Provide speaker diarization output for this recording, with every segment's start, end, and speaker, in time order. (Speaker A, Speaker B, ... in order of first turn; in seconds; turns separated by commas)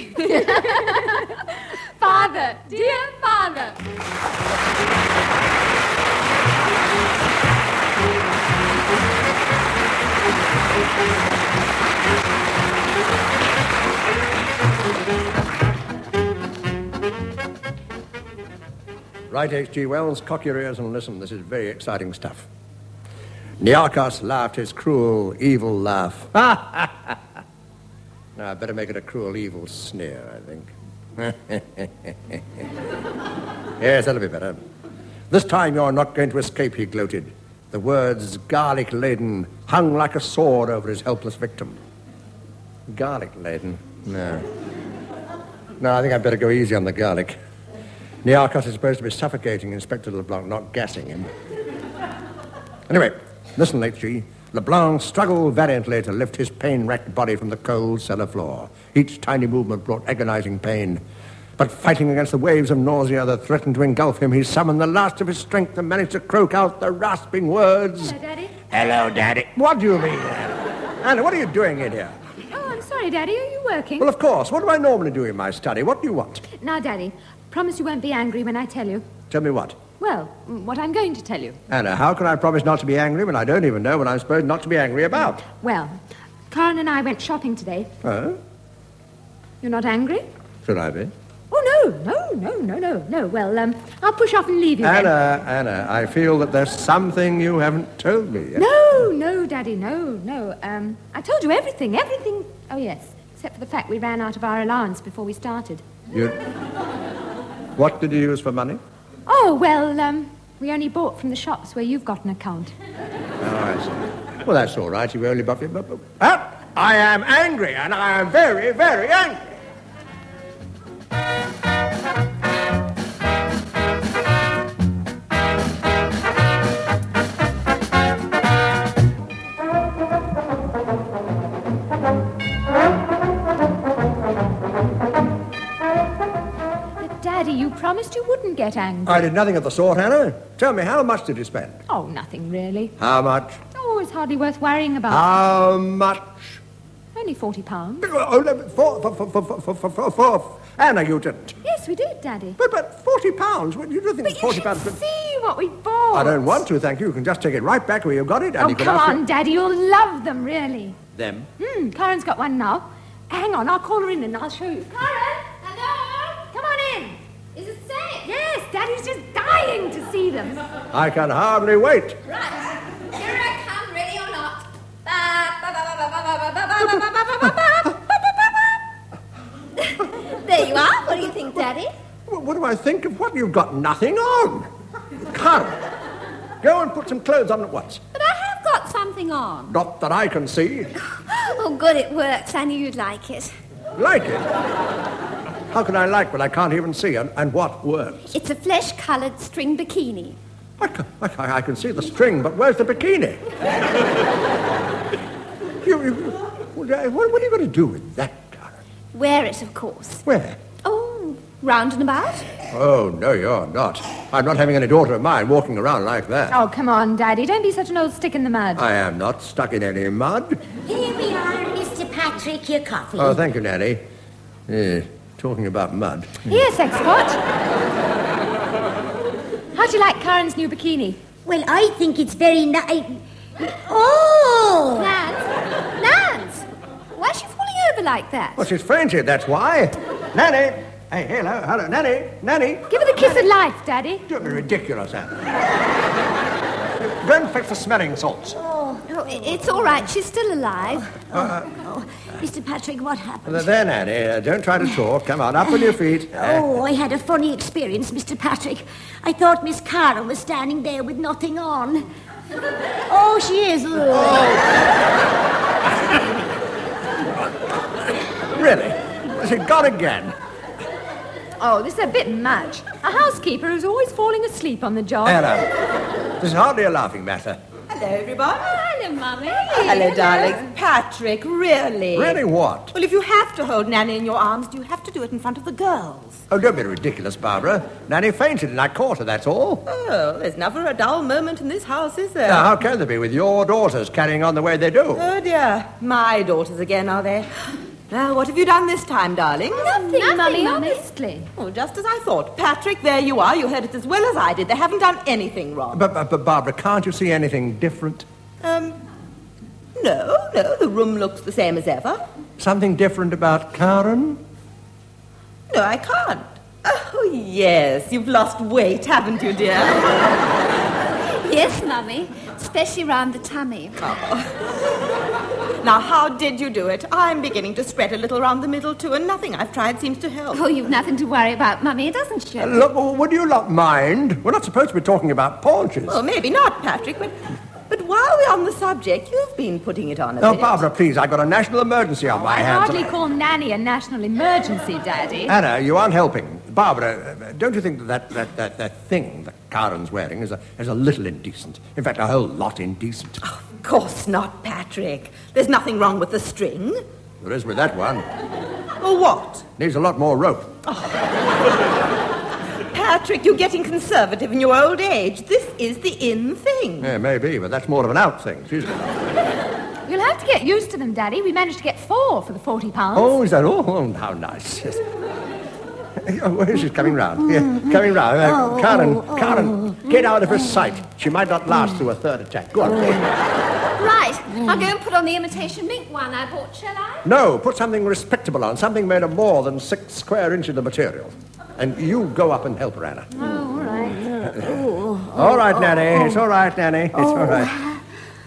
Speaker A: 0.2-1.3, Speaker A: 2.0-3.8, Speaker B: 19.3-22.5, Speaker B: 23.6-27.2, Speaker B: 28.4-32.7, Speaker B: 33.8-34.6, Speaker B: 35.3-41.8, Speaker B: 42.9-44.5, Speaker B: 45.8-47.4, Speaker B: 48.2-51.3, Speaker B: 52.9-61.0, Speaker B: 61.6-68.2, Speaker A: 68.0-68.5, Speaker B: 68.7-72.2, Speaker A: 72.5-74.1, Speaker B: 74.0-76.4, Speaker A: 76.5-79.0, Speaker B: 79.3-79.8, Speaker A: 80.0-81.6, Speaker B: 81.7-85.4, Speaker A: 85.5-86.0, Speaker A: 86.5-87.9, Speaker B: 88.0-88.4, Speaker A: 89.6-90.3, Speaker B: 90.6-91.1, Speaker A: 91.5-95.1, Speaker B: 94.8-98.7, Speaker A: 98.5-105.8, Speaker B: 106.1-106.4, Speaker B: 107.8-108.8, Speaker A: 109.3-112.7, Speaker B: 113.4-119.4, Speaker A: 137.0-139.3, Speaker B: 139.1-141.8, Speaker A: 141.9-142.9, Speaker B: 143.0-143.6, Speaker A: 143.7-145.2, Speaker B: 145.1-146.6, Speaker A: 147.2-148.1, Speaker B: 148.0-151.6, Speaker A: 151.6-152.6, Speaker B: 152.6-155.0, Speaker A: 154.2-156.6, Speaker B: 156.1-159.2, Speaker A: 158.6-161.0, Speaker B: 161.2-161.5, Speaker A: 161.6-165.6, Speaker C: 165.6-166.4, Speaker A: 166.4-167.2, Speaker C: 167.6-168.3, Speaker A: 168.2-170.6, Speaker B: 170.9-172.2, Speaker C: 173.1-178.8, Speaker C: 179.8-181.9, Speaker B: 182.3-184.7, Speaker B: 185.3-185.8, Speaker B: 186.6-188.0, Speaker C: 188.1-189.7, Speaker B: 189.7-190.9, Speaker C: 191.1-193.5, Speaker B: 194.0-194.5, Speaker B: 195.7-198.3, Speaker C: 198.3-200.4, Speaker B: 200.8-203.6, Speaker B: 205.8-208.8, Speaker C: 209.1-210.2, Speaker B: 210.3-210.6, Speaker C: 210.8-212.5, Speaker B: 212.7-216.6, Speaker A: 216.5-218.9, Speaker B: 218.8-220.6, Speaker D: 220.8-223.4, Speaker B: 223.2-224.0, Speaker B: 224.7-226.5, Speaker A: 226.5-227.4, Speaker A: 229.7-231.2, Speaker D: 231.4-235.1, Speaker C: 234.9-238.6, Speaker B: 238.6-243.5, Speaker A: 242.9-244.3, Speaker B: 244.3-245.4, Speaker B: 246.8-248.6, Speaker D: 248.6-249.0, Speaker C: 249.1-251.2, Speaker B: 251.3-251.6, Speaker D: 251.6-253.6, Speaker B: 253.5-256.7, Speaker D: 256.4-262.1, Speaker D: 263.1-264.5, Speaker B: 264.1-264.8, Speaker B: 268.1-270.3, Speaker A: 271.6-275.4, Speaker B: 275.2-275.7, Speaker B: 276.4-277.6, Speaker E: 277.9-278.8, Speaker C: 278.7-280.6, Speaker E: 279.7-282.4, Speaker B: 282.1-282.9, Speaker E: 282.9-286.4, Speaker B: 286.5-289.9, Speaker E: 289.9-292.7, Speaker B: 292.5-295.3, Speaker E: 295.2-297.5, Speaker E: 298.1-299.9, Speaker C: 299.7-301.0, Speaker A: 299.7-301.5, Speaker E: 301.6-306.0, Speaker B: 305.9-308.3, Speaker E: 308.6-309.0, Speaker E: 310.0-312.2, Speaker B: 312.6-314.4, Speaker E: 315.7-320.4, Speaker C: 321.4-324.0, Speaker E: 324.0-324.5, Speaker E: 325.8-330.6, Speaker C: 330.5-332.8, Speaker B: 332.6-336.2, Speaker E: 336.1-337.4, Speaker E: 337.9-340.8, Speaker B: 340.4-343.2, Speaker A: 342.3-345.6, Speaker B: 345.5-353.4, Speaker E: 353.4-357.0, Speaker B: 357.4-358.3, Speaker E: 359.0-359.7, Speaker B: 359.8-360.7, Speaker E: 362.9-367.1, Speaker B: 367.0-369.2, Speaker A: 370.1-373.4, Speaker B: 373.1-375.0, Speaker B: 376.2-383.3, Speaker D: 378.6-379.9, Speaker C: 384.0-387.2, Speaker B: 387.2-393.3, Speaker A: 393.4-394.2, Speaker D: 394.2-396.4, Speaker B: 394.4-397.8, Speaker D: 397.1-398.0